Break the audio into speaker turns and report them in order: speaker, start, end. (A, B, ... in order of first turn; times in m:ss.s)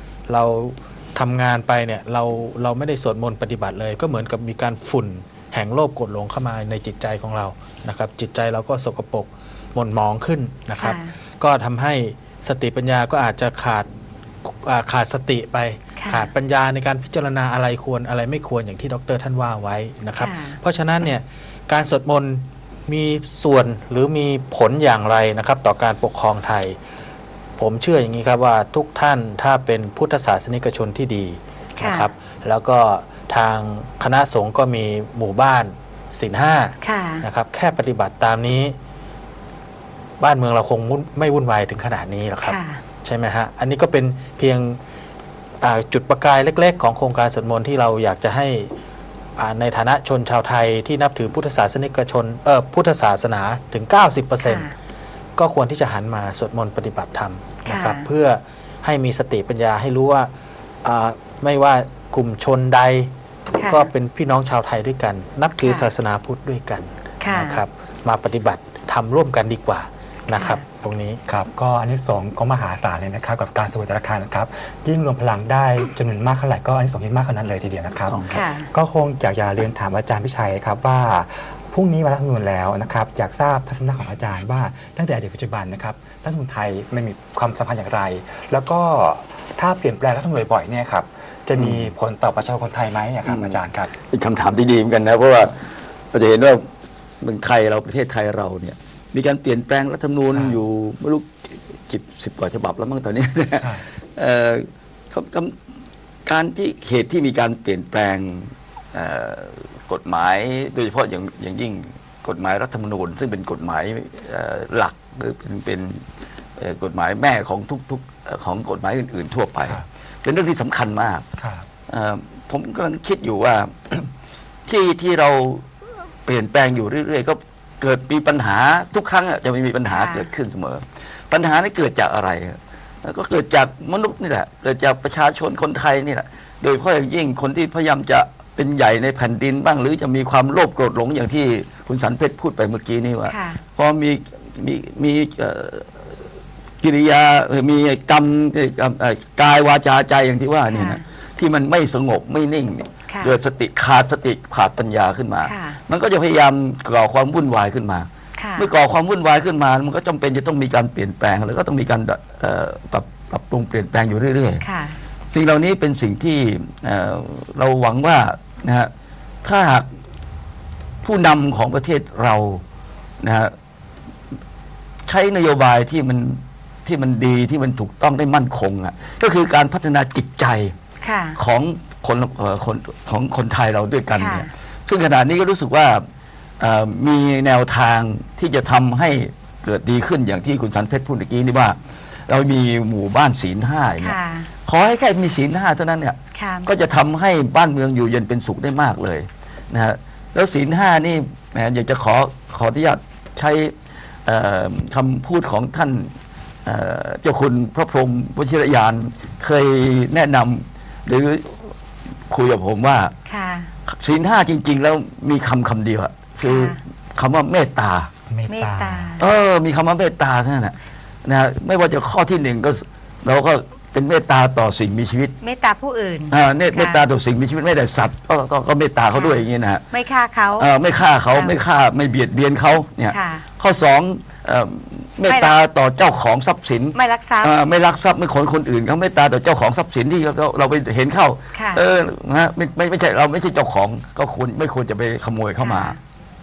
0:00.3-0:13.9 A
0:10.8-0:11.1 B
0:14.4-0:26.8 A
0:16.0-0:16.3 B
0:20.2-0:20.6 B
0:27.6-0:38.8 A
0:31.8-0:32.1 B
0:36.8-0:37.2 B
0:40.2-0:44.8 A
0:42.5-0:42.8 B
0:45.6-0:48.7 A
0:49.4-0:54.6 A
0:54.4-0:54.8 B
0:55.4-1:00.3 A
0:57.6-0:58.0 B
1:00.8-1:03.1 A
1:03.6-1:03.9 B
1:03.6-1:11.2 A
1:05.6-1:05.9 B
1:07.2-1:07.6 B
1:10.3-1:10.6 B
1:11.3-1:33.9 C
1:18.1-1:18.4 D
1:18.3-1:18.7 B
1:31.6-1:31.9 D
1:33.3-1:33.6 D
1:34.1-1:35.6 D
1:36.1-1:36.6 D
1:37.2-1:45.6 D
1:40.3-1:40.6 C
1:46.3-1:56.0 D
1:56.6-2:01.2 D
2:01.4-2:01.7 C
2:01.9-2:04.1 D
2:04.7-2:05.6 D
2:06.3-2:25.9 D
2:09.9-2:10.3 B
2:23.3-2:23.6 B
2:26.8-2:44.6 D
2:30.7-2:31.0 B
2:35.4-2:35.8 B
2:38.4-2:38.7 B
2:44.6-2:45.0 B
2:45.3-2:48.9 D
2:49.4-2:49.9 D
2:51.0-2:52.6 D
2:53.2-2:53.5 D
2:55.1-3:00.7 D
3:01.0-3:01.4 B
3:01.4-3:06.0 D
3:04.2-3:04.5 B
3:06.6-3:23.7 D
3:14.0-3:14.5 B
3:16.4-3:16.7 B
3:24.3-3:26.1 D
3:26.6-3:31.7 D
3:32.3-3:33.1 D
3:33.3-3:33.7 B
3:33.9-3:38.1 D
3:36.5-3:36.8 B
3:38.3-3:39.2 C
3:38.5-3:39.2 B
3:39.2-3:40.7 D
3:41.2-3:45.4 D
3:45.4-3:47.0 B
3:46.3-3:49.8 D
3:49.1-3:49.4 B
3:49.9-3:50.7 B
3:50.6-4:06.0 D
3:53.1-3:53.5 B
3:55.3-3:55.6 B
3:57.0-3:57.5 B
4:01.5-4:01.8 B
4:05.6-4:06.0 B